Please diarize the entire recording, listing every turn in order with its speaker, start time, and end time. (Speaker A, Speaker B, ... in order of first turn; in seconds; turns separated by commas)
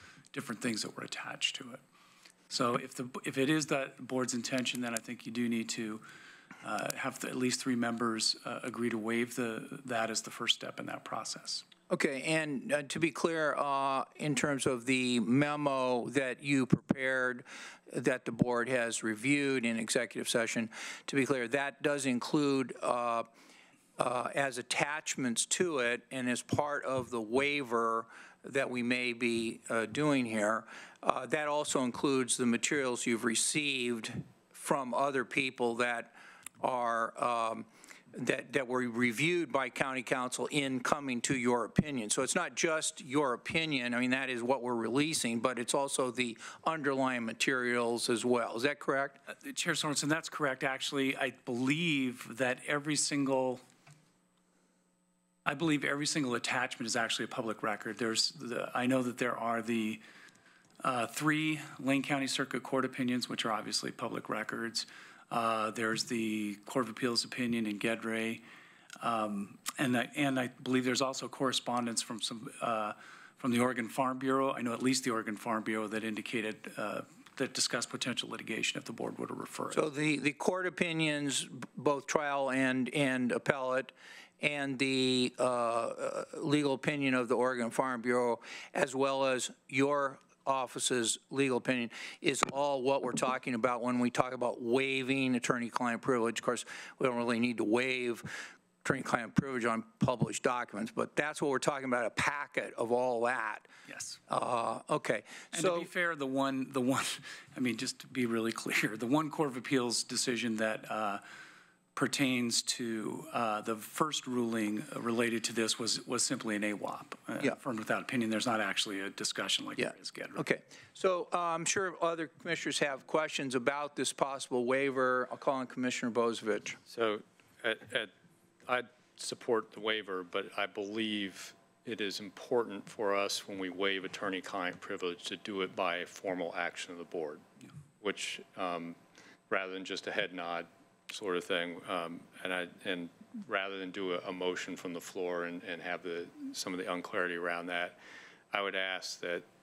Speaker A: 0.3-1.8, Speaker A: 2.5-6.0, Speaker A: 6.6-11.7, Speaker B: 11.9-23.3, Speaker B: 24.0-49.2, Speaker A: 49.3-53.6, Speaker A: 55.5-60.0, Speaker A: 60.8-68.4, Speaker A: 69.0-79.9, Speaker B: 79.7-103.7, Speaker A: 103.9-104.2, Speaker B: 104.3-105.9, Speaker A: 105.5-111.2, Speaker A: 111.9-120.4, Speaker B: 119.8-126.8, Speaker C: 126.9-128.1, Speaker C: 128.7-137.4, Speaker C: 138.0-139.0, Speaker C: 139.5-148.0, Speaker C: 148.5-149.4